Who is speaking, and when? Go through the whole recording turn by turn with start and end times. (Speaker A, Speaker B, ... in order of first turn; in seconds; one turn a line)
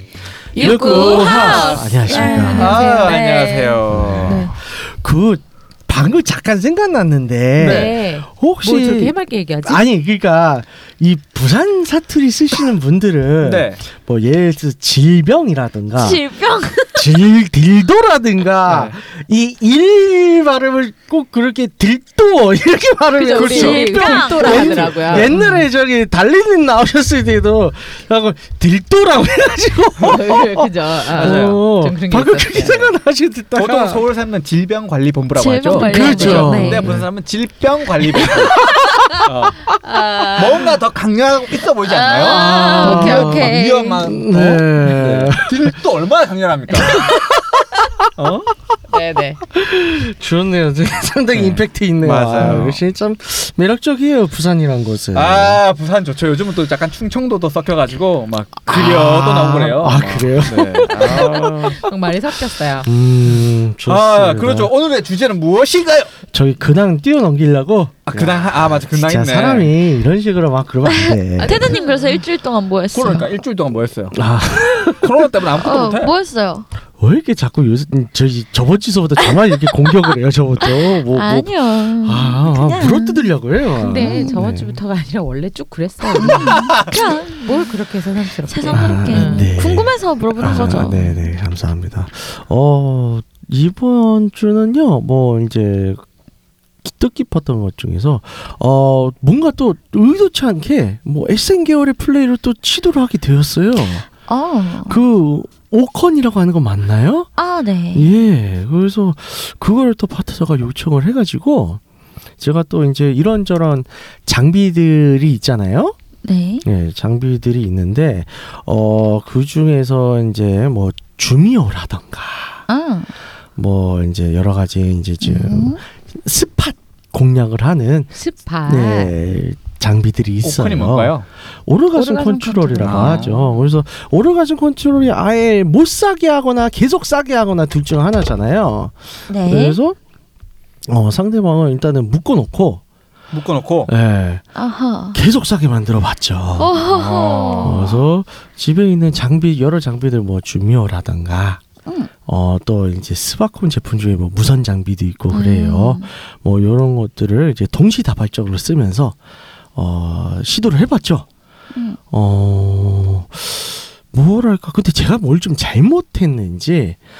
Speaker A: 0.5-3.1
Speaker B: 0.5-2.9
Speaker C: 0.6-3.8
Speaker D: 1.2-1.5
Speaker D: 2.6-4.5
Speaker B: 3.9-16.2
Speaker A: 4.2-4.5
Speaker D: 7.6-8.0
Speaker A: 7.6-9.8
Speaker D: 13.4-13.8
Speaker C: 15.9-17.1
Speaker B: 16.9-34.1
Speaker D: 18.7-19.0
Speaker A: 23.1-25.6
Speaker C: 23.3-24.9
Speaker D: 23.4-23.8
Speaker A: 30.0-32.8
Speaker D: 31.1-31.6
Speaker D: 33.5-47.3
Speaker C: 35.3-36.9
Speaker B: 35.8-37.1
Speaker A: 36.1-36.7
Speaker B: 38.2-38.6
Speaker A: 39.8-40.8
Speaker C: 41.9-44.1
Speaker B: 42.2-45.8
Speaker A: 42.5-43.2
Speaker B: 46.8-47.9
Speaker D: 48.1-48.5
Speaker A: 48.9-49.4
Speaker B: 49.5-55.6
Speaker D: 51.3-52.8
Speaker D: 55.1-61.8
Speaker B: 58.7-61.8
Speaker A: 61.3-62.9
Speaker B: 62.8-64.7
Speaker D: 63.9-66.1
Speaker B: 66.3-71.8
Speaker D: 68.1-69.7
Speaker C: 70.8-73.3
Speaker A: 71.4-72.2
Speaker D: 72.9-74.2
Speaker B: 74.1-75.1
Speaker D: 74.9-76.1
Speaker C: 75.5-76.7
Speaker B: 77.0-84.8
Speaker C: 80.6-83.3
Speaker A: 83.8-89.5
Speaker C: 83.9-84.3
Speaker C: 86.2-87.7
Speaker D: 86.3-86.9
Speaker C: 88.5-91.2
Speaker B: 88.7-96.0
Speaker B: 96.8-104.1
Speaker C: 104.3-105.0
Speaker B: 104.9-107.3
Speaker C: 107.4-108.1
Speaker B: 107.9-111.8
Speaker B: 112.4-115.9
Speaker C: 116.2-116.6
Speaker B: 116.6-122.6
Speaker C: 122.7-123.1
Speaker B: 123.5-128.1
Speaker C: 125.2-125.8
Speaker A: 128.1-129.1
Speaker B: 128.7-140.0
Speaker D: 130.4-131.2
Speaker A: 131.9-133.3
Speaker D: 132.8-133.5
Speaker C: 139.3-139.8
Speaker B: 140.9-142.8
Speaker D: 143.3-143.9
Speaker B: 143.9-144.4
Speaker C: 144.6-145.2
Speaker B: 145.1-146.8
Speaker C: 146.6-148.0
Speaker D: 146.8-148.0
Speaker B: 147.6-151.6
Speaker B: 152.2-159.2
Speaker C: 155.3-156.1
Speaker B: 159.7-161.3
Speaker C: 161.7-162.0
Speaker B: 162.1-167.0